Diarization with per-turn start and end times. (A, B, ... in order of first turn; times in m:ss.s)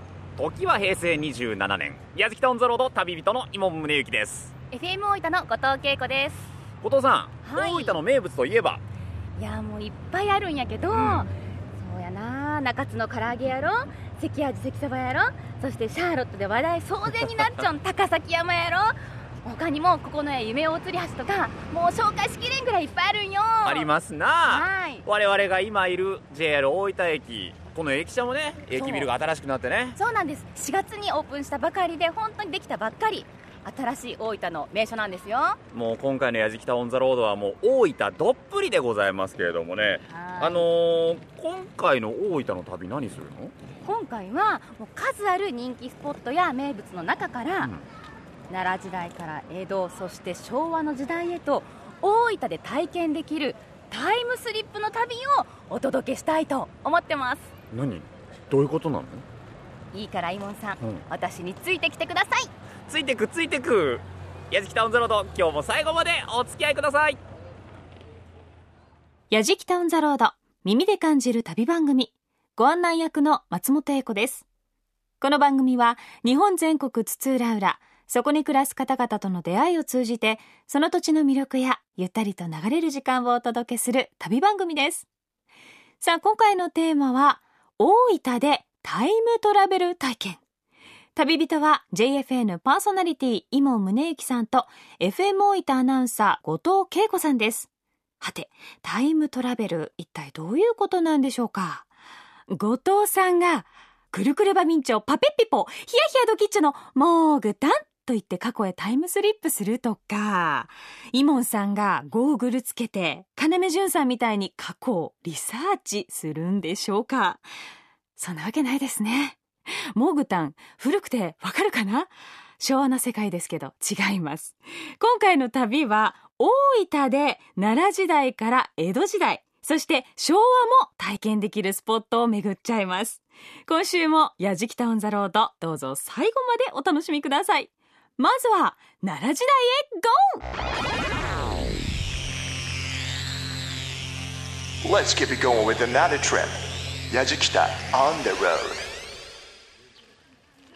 0:00.4-0:04.5 A
0:04.7-0:06.5 B
0:06.8-0:08.8 A
0:07.4-0:08.0 B
0:09.4-0:23.9 B
0:10.9-0:11.3 A
0:23.6-0:30.0 A
0:24.5-0:25.0 B
0:28.7-0:29.1 B
0:30.0-0:35.6 B
0:35.7-0:43.5 A
0:40.1-0:40.7 B
0:43.8-0:47.7 B
0:47.6-0:47.8 A
0:48.5-0:57.5 B
0:57.7-0:59.2 A
0:59.9-1:02.5 B
1:02.9-1:07.2 A
1:09.3-1:14.4 C
1:15.2-1:25.0 C
1:26.0-1:30.4 C
1:31.2-1:37.7 C
1:38.2-1:41.8 C
1:42.5-1:57.4 C
1:58.2-1:59.4 C
1:59.9-2:20.4 C
2:24.8-2:28.9 D